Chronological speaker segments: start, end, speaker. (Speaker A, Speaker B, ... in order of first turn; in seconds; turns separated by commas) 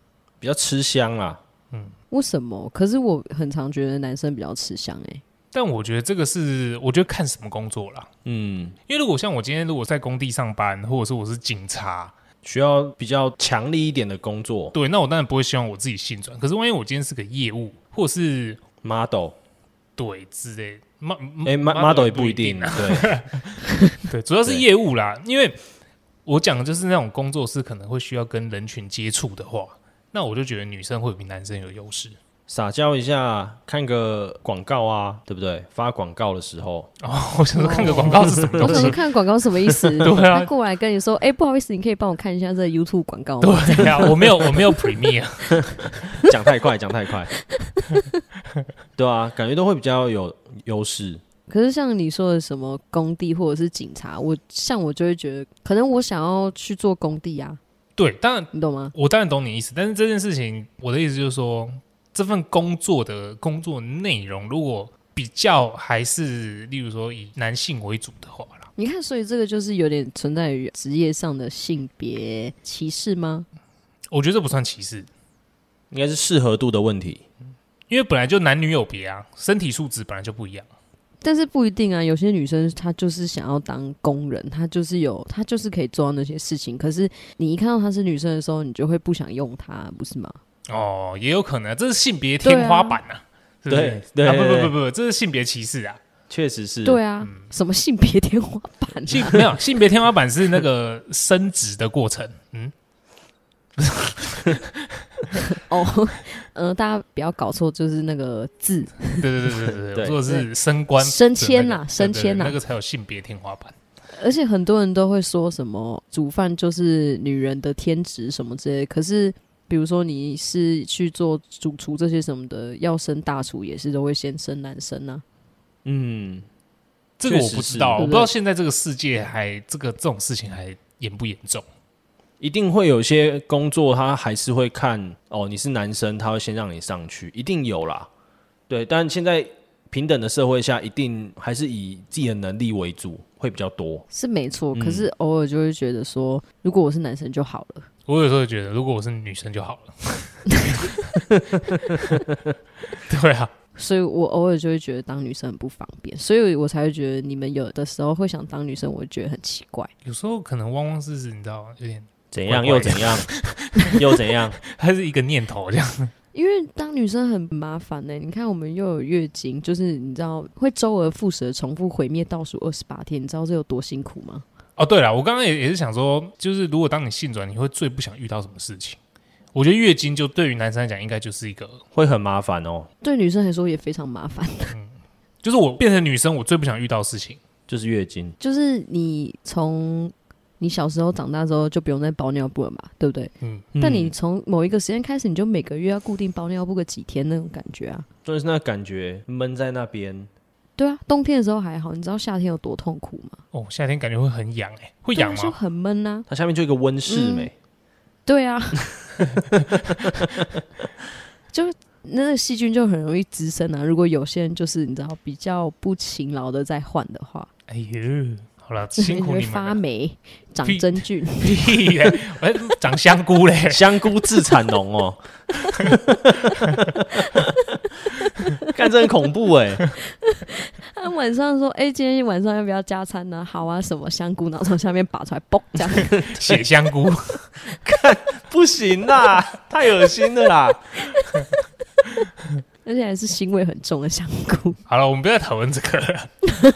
Speaker A: 0.4-1.4, Speaker B: 2.1-5.2, Speaker C: 5.5-8.1, Speaker A: 8.2-8.8, Speaker C: 8.9-12.1, Speaker A: 12.4-14.8, Speaker C: 14.7-18.6, Speaker A: 18.8-19.4, Speaker C: 20.0-25.6, Speaker A: 21.4-23.2, Speaker C: 26.3-32.2, Speaker A: 32.5-36.9, Speaker C: 37.0-39.0, Speaker B: 37.6-45.0, Speaker A: 38.2-38.9, Speaker C: 40.0-40.5, Speaker C: 43.4-46.2, Speaker A: 46.2-47.3, Speaker B: 47.6-48.0, Speaker A: 49.0-51.2, Speaker B: 51.5-57.6, Speaker C: 58.0-68.7, Speaker B: 58.5-59.0, Speaker B: 68.8-73.5, Speaker C: 74.1-75.1, Speaker A: 75.9-77.2, Speaker C: 77.9-80.7, Speaker B: 81.2-90.4, Speaker C: 90.7-96.0, Speaker B: 92.4-93.0, Speaker A: 93.7-94.7, Speaker A: 96.3-97.0, Speaker B: 96.8-99.5, Speaker C: 97.2-97.5, Speaker C: 99.1-102.7, Speaker C: 103.8-105.5, Speaker B: 105.5-109.3, Speaker C: 109.2-113.8, Speaker B: 111.0-112.6, Speaker B: 114.1-125.2, Speaker A: 125.8-126.5, Speaker C: 127.2-131.7, Speaker A: 127.2-128.1, Speaker B: 128.0-128.3, Speaker A: 132.4-138.1, Speaker A: 138.7-144.1, Speaker B: 144.1-147.9, Speaker A: 144.7-145.1, Speaker C: 148.1-151.2, Speaker C: 151.7-152.2, Speaker C: 153.1-153.5, Speaker B: 153.8-159.9, Speaker C: 160.1-164.0, Speaker A: 162.3-163.3, Speaker A: 163.9-164.6, Speaker C: 164.6-166.1, Speaker B: 166.3-174.4, Speaker C: 174.8-179.0, Speaker C: 179.5-181.8, Speaker A: 181.9-182.9, Speaker B: 183.0-184.8, Speaker C: 184.7-187.4, Speaker A: 187.7-188.4, Speaker B: 188.4-198.1, Speaker A: 193.8-194.1, Speaker A: 198.2-200.3, Speaker B: 200.8-203.4, Speaker C: 203.5-205.6, Speaker B: 205.2-206.3, Speaker A: 206.3-207.5, Speaker B: 207.1-207.5, Speaker B: 208.3-209.0, Speaker C: 209.4-210.1, Speaker B: 211.5-217.5, Speaker C: 217.7-219.8, Speaker B: 219.0-221.9, Speaker C: 220.6-223.8, Speaker A: 223.7-225.2, Speaker A: 228.7-229.9, Speaker B: 230.2-236.3, Speaker C: 236.2-237.5, Speaker A: 237.7-241.0, Speaker B: 242.8-244.8, Speaker C: 244.9-246.4